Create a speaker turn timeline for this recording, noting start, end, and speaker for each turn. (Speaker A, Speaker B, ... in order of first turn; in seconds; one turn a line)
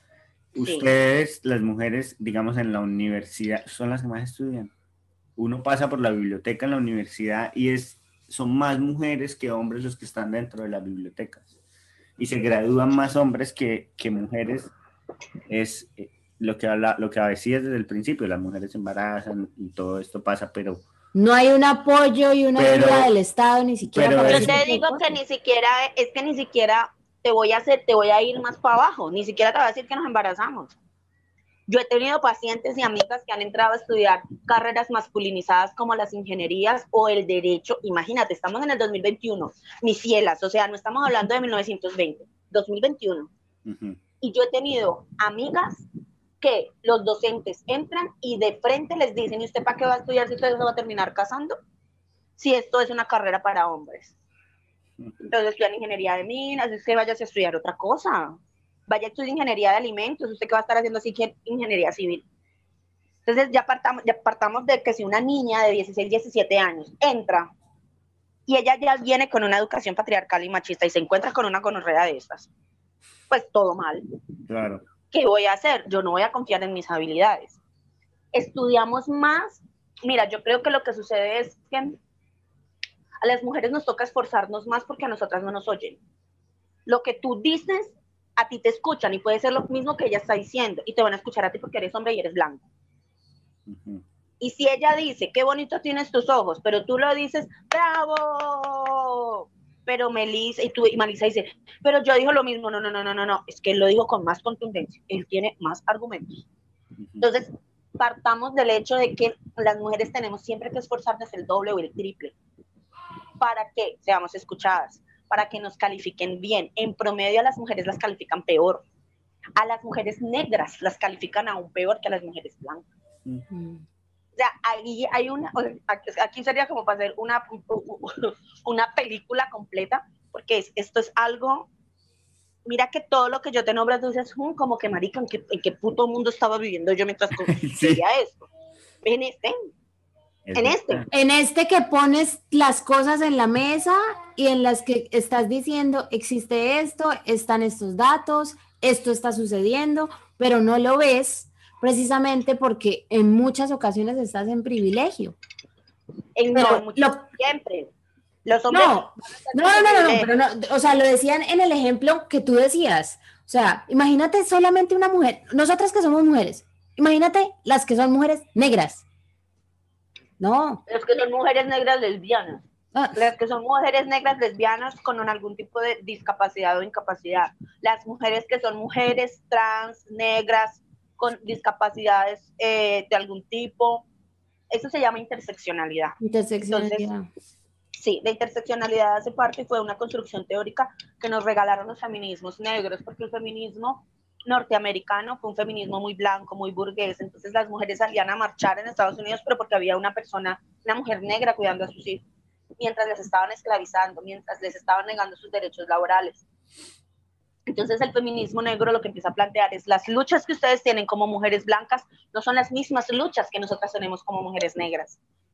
Speaker A: 0.6-4.7
Speaker B: 0.6-0.9
Speaker A: 5.4-11.5
Speaker A: 12.2-14.7
Speaker A: 15.5-20.8
Speaker C: 21.1-25.0
Speaker A: 22.6-23.1
Speaker A: 23.9-24.6
Speaker B: 24.2-30.8
Speaker B: 31.7-43.3
Speaker A: 43.6-44.0
Speaker B: 44.2-45.9
Speaker B: 46.4-51.6
Speaker B: 52.4-54.1
Speaker B: 55.2-62.2
Speaker B: 63.3-67.5
Speaker B: 68.5-72.5
Speaker B: 73.3-74.0
Speaker A: 74.5-74.8
Speaker B: 75.1-77.6
Speaker B: 78.3-82.0
Speaker B: 83.2-86.0
Speaker B: 86.9-92.7
Speaker A: 93.7-94.0
Speaker B: 94.4-106.5
Speaker A: 107.0-107.3
Speaker B: 107.2-112.3
Speaker B: 113.4-118.8
Speaker B: 119.6-122.9
Speaker C: 123.5-123.8
Speaker B: 124.4-131.7
Speaker B: 132.7-138.5
Speaker A: 137.5-138.0
Speaker B: 139.0-139.6
Speaker A: 140.5-141.1
Speaker B: 140.6-141.0
Speaker C: 141.1-155.4
Speaker B: 156.4-157.9
Speaker C: 156.5-157.2
Speaker B: 158.5-160.3
Speaker C: 158.7-169.0
Speaker C: 170.4-170.8
Speaker B: 170.9-184.1
Speaker C: 172.9-173.2
Speaker B: 184.7-187.1
Speaker C: 186.2-187.2
Speaker B: 188.0-202.2
Speaker B: 202.8-206.4
Speaker B: 207.7-215.2